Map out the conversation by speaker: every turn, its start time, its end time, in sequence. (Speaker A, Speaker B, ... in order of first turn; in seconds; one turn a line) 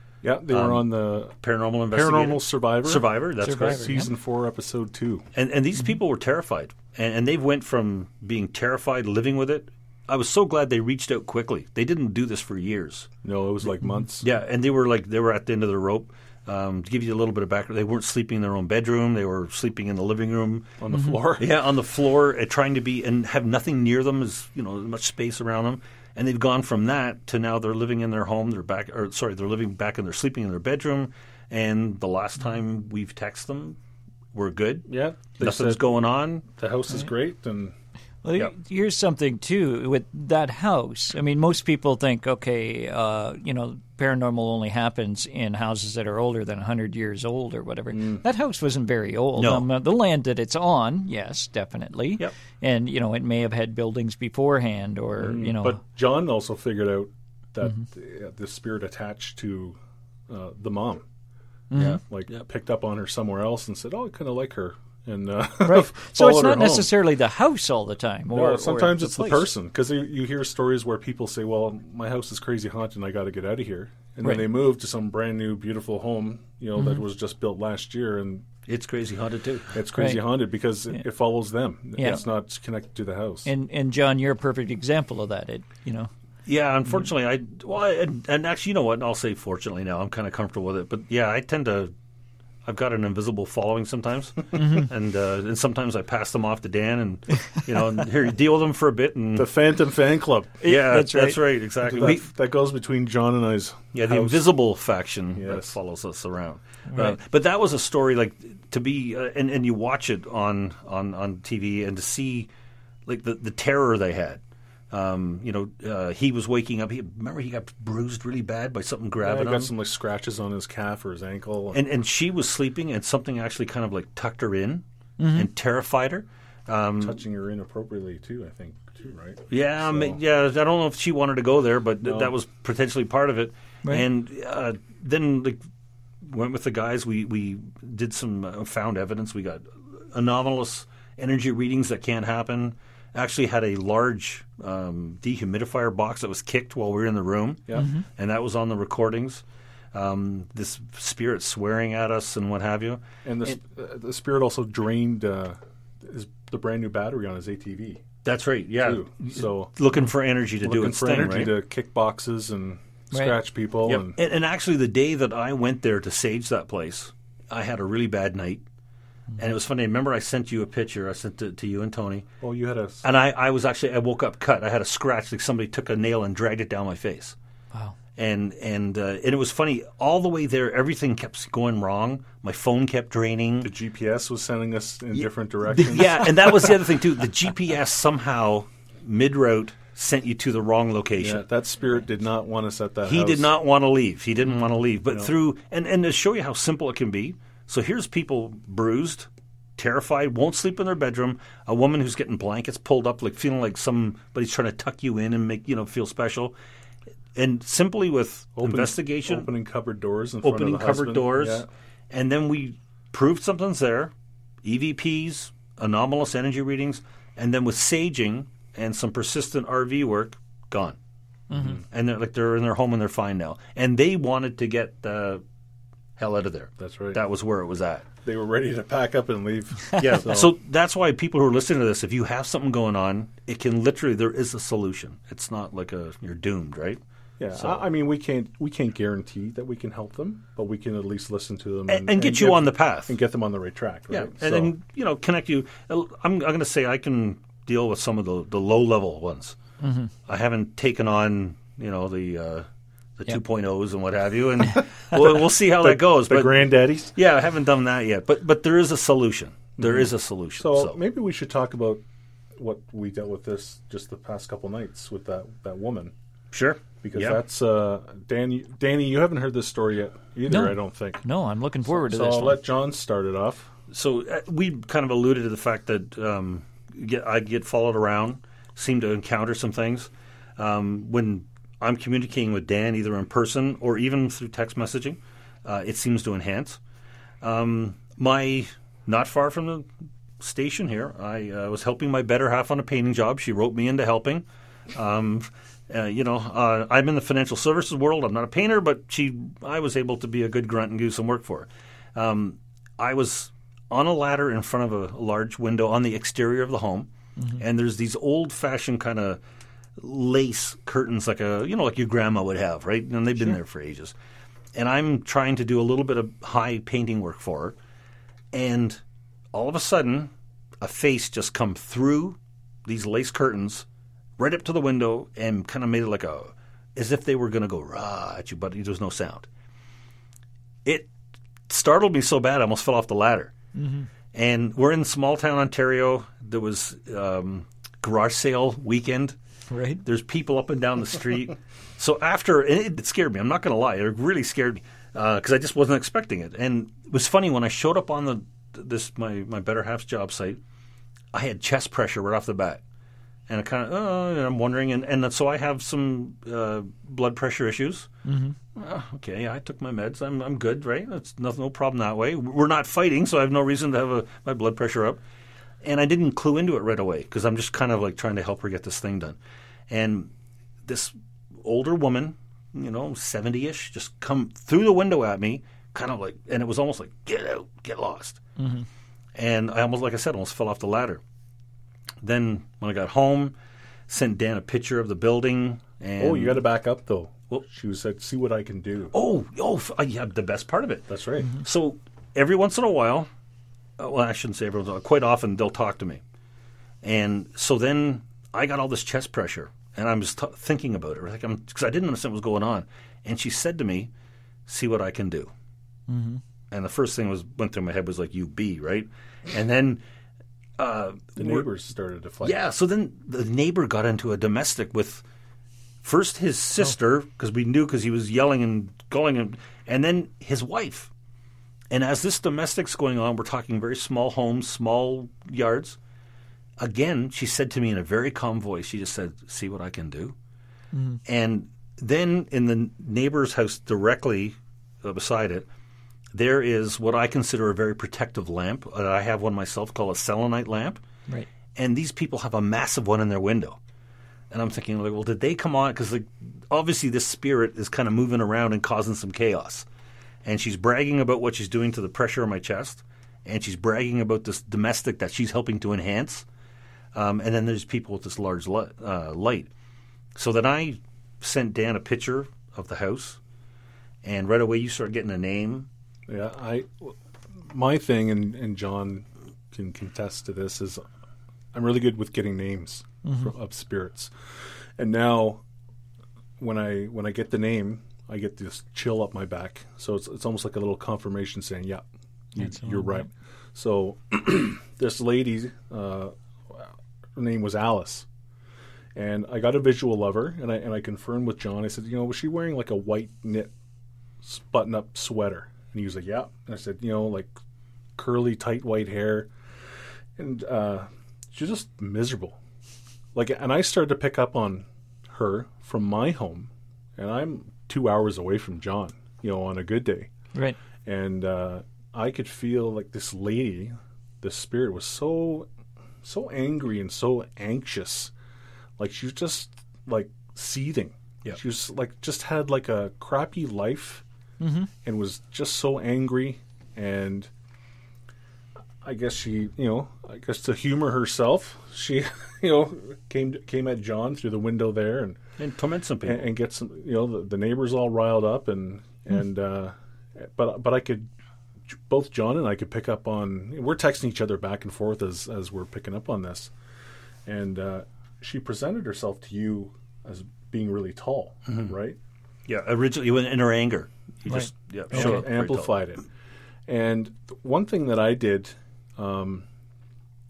Speaker A: 0.2-1.4
Speaker B: 0.5-3.9
Speaker A: 1.9-5.2
Speaker C: 3.4-4.1
Speaker B: 5.3-13.1
Speaker A: 13.2-14.3
Speaker B: 14.2-20.8
Speaker A: 20.8-21.5
Speaker C: 20.9-21.2
Speaker B: 21.4-33.8
Speaker B: 34.3-36.5
Speaker A: 34.9-35.9
Speaker A: 36.5-37.8
Speaker C: 38.2-55.8
Speaker A: 47.9-48.2
Speaker B: 49.4-49.7
Speaker A: 55.2-61.1
Speaker C: 61.7-62.0
Speaker B: 61.8-62.4
Speaker A: 62.1-66.9
Speaker C: 65.6-69.5
Speaker A: 68.3-78.5
Speaker C: 76.8-77.0
Speaker B: 78.7-79.8
Speaker A: 79.7-83.5
Speaker C: 80.0-80.2
Speaker C: 82.0-82.2
Speaker C: 83.5-86.1
Speaker B: 86.5-91.9
Speaker B: 92.7-99.5
Speaker C: 94.6-94.8
Speaker A: 99.3-100.6
Speaker C: 100.6-101.4
Speaker B: 100.7-102.2
Speaker A: 101.8-104.5
Speaker B: 103.9-112.5
Speaker A: 105.3-105.7
Speaker C: 106.9-107.2
Speaker B: 113.1-119.7
Speaker A: 119.2-121.8
Speaker B: 121.7-127.2
Speaker C: 125.2-125.5
Speaker A: 127.0-130.2
Speaker B: 129.5-135.6
Speaker A: 132.0-132.3
Speaker B: 136.2-153.6
Speaker C: 147.8-148.1
Speaker A: 153.2-158.0
Speaker B: 158.2-161.5
Speaker A: 158.8-159.7
Speaker A: 160.6-164.2
Speaker C: 163.1-163.4
Speaker B: 163.8-168.6
Speaker B: 169.4-172.3
Speaker A: 172.4-173.0
Speaker B: 173.0-177.3
Speaker B: 178.2-183.7
Speaker A: 183.6-186.6
Speaker B: 185.7-191.4
Speaker A: 191.2-193.5
Speaker B: 193.1-206.6
Speaker B: 207.3-209.5
Speaker A: 208.6-211.7
Speaker B: 210.4-214.1
Speaker B: 214.6-221.0
Speaker C: 221.5-221.8
Speaker A: 221.5-221.8
Speaker B: 221.9-225.4
Speaker B: 226.2-228.1
Speaker A: 226.8-227.2
Speaker A: 228.2-230.6
Speaker B: 230.0-237.0
Speaker A: 237.4-244.7
Speaker B: 237.5-237.8
Speaker B: 241.9-243.2
Speaker B: 244.1-249.6
Speaker C: 249.8-250.1
Speaker B: 250.3-252.7
Speaker B: 253.2-261.0
Speaker A: 255.2-257.1
Speaker A: 259.8-262.0
Speaker A: 262.6-266.1
Speaker B: 266.5-267.4
Speaker A: 267.0-271.2
Speaker C: 270.5-272.6
Speaker A: 271.9-273.7
Speaker B: 273.9-286.8
Speaker B: 287.4-289.9
Speaker B: 290.4-309.4
Speaker C: 307.4-307.6
Speaker B: 310.0-314.1
Speaker B: 314.8-317.8
Speaker B: 318.5-319.0
Speaker B: 319.5-323.9
Speaker B: 324.4-329.5
Speaker B: 330.9-331.1
Speaker B: 331.7-333.5
Speaker C: 333.8-334.1
Speaker B: 334.3-339.4
Speaker C: 339.7-340.0
Speaker B: 340.0-350.6
Speaker B: 351.3-352.8
Speaker B: 353.5-358.1
Speaker C: 358.2-358.6
Speaker B: 358.8-365.2
Speaker B: 365.8-369.4
Speaker B: 369.9-370.3
Speaker B: 370.9-378.4
Speaker C: 378.6-378.9
Speaker B: 379.4-381.2
Speaker B: 382.2-383.5
Speaker B: 384.1-386.6
Speaker A: 386.2-389.1
Speaker B: 389.1-393.3
Speaker A: 391.1-391.5
Speaker B: 394.0-396.2
Speaker B: 397.0-404.1
Speaker B: 404.7-405.5
Speaker C: 406.1-406.4
Speaker B: 406.7-410.0
Speaker B: 410.8-411.7
Speaker A: 411.4-412.6
Speaker B: 412.4-415.2
Speaker B: 416.0-421.1
Speaker B: 421.9-426.0
Speaker B: 426.8-430.3
Speaker C: 430.9-431.2
Speaker B: 431.3-435.7
Speaker B: 436.3-441.0
Speaker B: 441.8-443.8
Speaker B: 444.5-449.9
Speaker B: 450.4-456.5
Speaker B: 457.1-459.7
Speaker B: 460.4-463.4
Speaker B: 464.2-465.9
Speaker A: 466.3-471.0
Speaker A: 471.7-475.6
Speaker C: 473.2-473.5
Speaker A: 476.6-488.3
Speaker C: 482.6-483.3
Speaker A: 489.1-493.7
Speaker A: 494.4-497.6
Speaker A: 498.2-499.5
Speaker A: 500.4-502.6
Speaker A: 503.3-510.3
Speaker A: 511.1-515.7
Speaker A: 516.2-518.3
Speaker A: 519.0-524.2
Speaker C: 524.6-524.9
Speaker A: 525.0-527.5
Speaker A: 529.0-535.4
Speaker B: 535.6-536.5
Speaker A: 536.2-541.3
Speaker A: 541.9-546.7
Speaker A: 547.5-552.2
Speaker B: 551.7-551.9
Speaker B: 552.7-555.9
Speaker C: 554.5-555.5
Speaker A: 555.1-556.2
Speaker A: 556.9-559.7